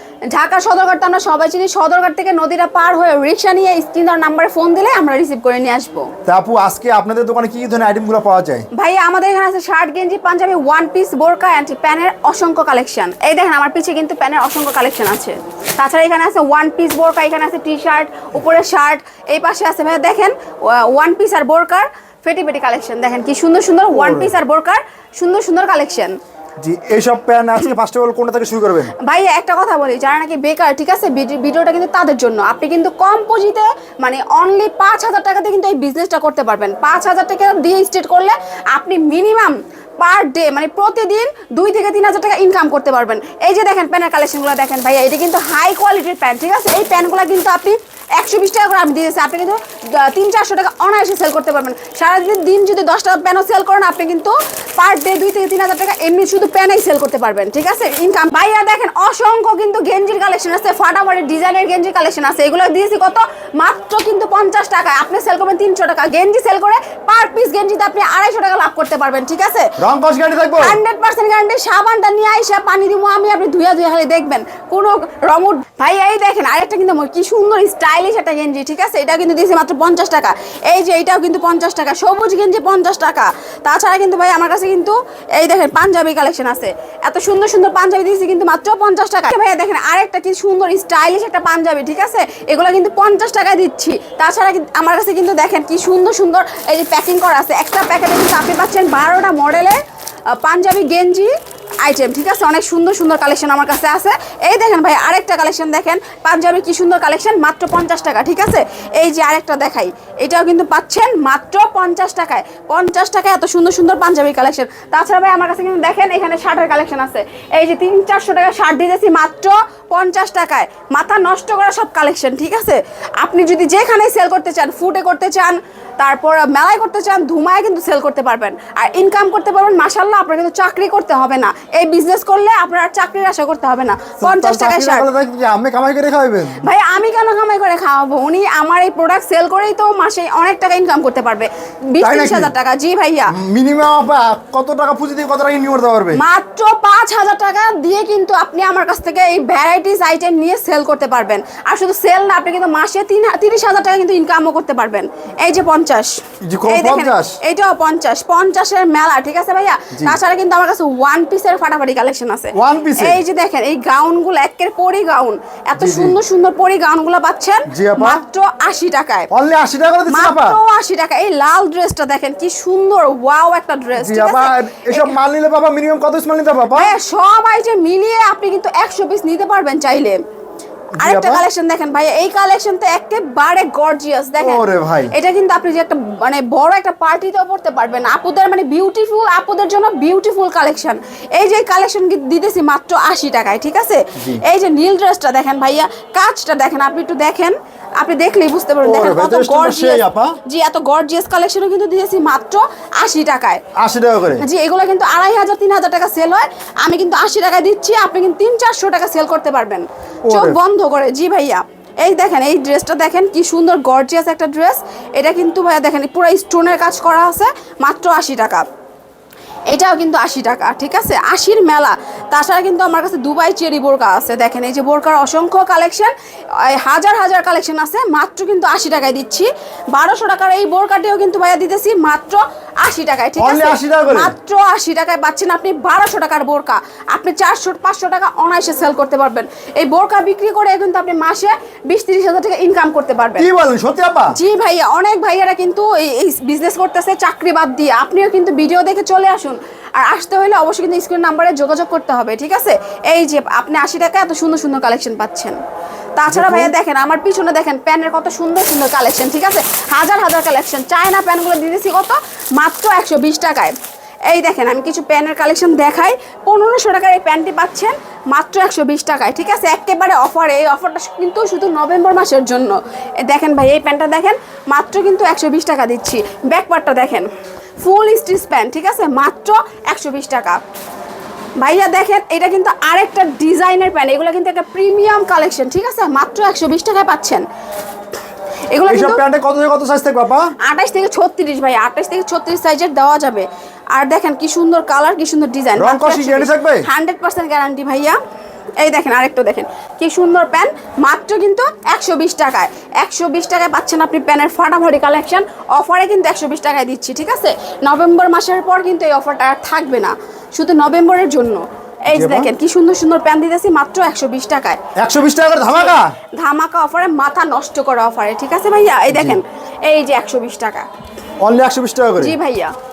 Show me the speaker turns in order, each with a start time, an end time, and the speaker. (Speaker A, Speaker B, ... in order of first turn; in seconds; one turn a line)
Speaker A: 0.3-6.1
Speaker B: 6.2-8.7
Speaker A: 8.7-26.1
Speaker B: 23.9-24.3
Speaker B: 26.6-28.9
Speaker A: 29.0-69.7
Speaker B: 69.8-70.8
Speaker A: 70.6-99.8
Speaker A: 100.3-101.3
Speaker A: 101.8-135.1
Speaker B: 134.2-136.6
Speaker A: 136.6-143.3
Speaker B: 142.0-142.5
Speaker B: 143.3-146.2
Speaker A: 146.1-169.3
Speaker B: 156.4-157.3
Speaker B: 162.5-163.2
Speaker B: 165.8-166.2
Speaker B: 167.7-168.2
Speaker B: 169.3-170.6
Speaker A: 170.1-175.1
Speaker B: 173.9-176.9
Speaker A: 176.7-180.2
Speaker B: 181.0-181.4
Speaker A: 181.0-203.6
Speaker B: 184.4-185.1
Speaker B: 194.2-194.4
Speaker B: 198.8-200.3
Speaker B: 203.8-204.4
Speaker A: 204.4-218.6
Speaker B: 210.3-210.6
Speaker A: 219.7-243.4
Speaker B: 233.4-234.3
Speaker B: 243.4-244.4
Speaker A: 244.3-255.6
Speaker A: 256.2-263.7
Speaker B: 256.3-256.7
Speaker A: 264.3-277.3
Speaker A: 277.8-280.6
Speaker A: 281.6-287.4
Speaker A: 288.7-289.2
Speaker B: 288.9-290.5
Speaker A: 290.6-298.2
Speaker B: 295.8-296.9
Speaker A: 298.8-314.8
Speaker B: 312.1-312.5
Speaker B: 315.0-316.1
Speaker A: 315.9-320.9
Speaker B: 319.1-319.4
Speaker B: 321.4-322.4
Speaker A: 322.2-322.7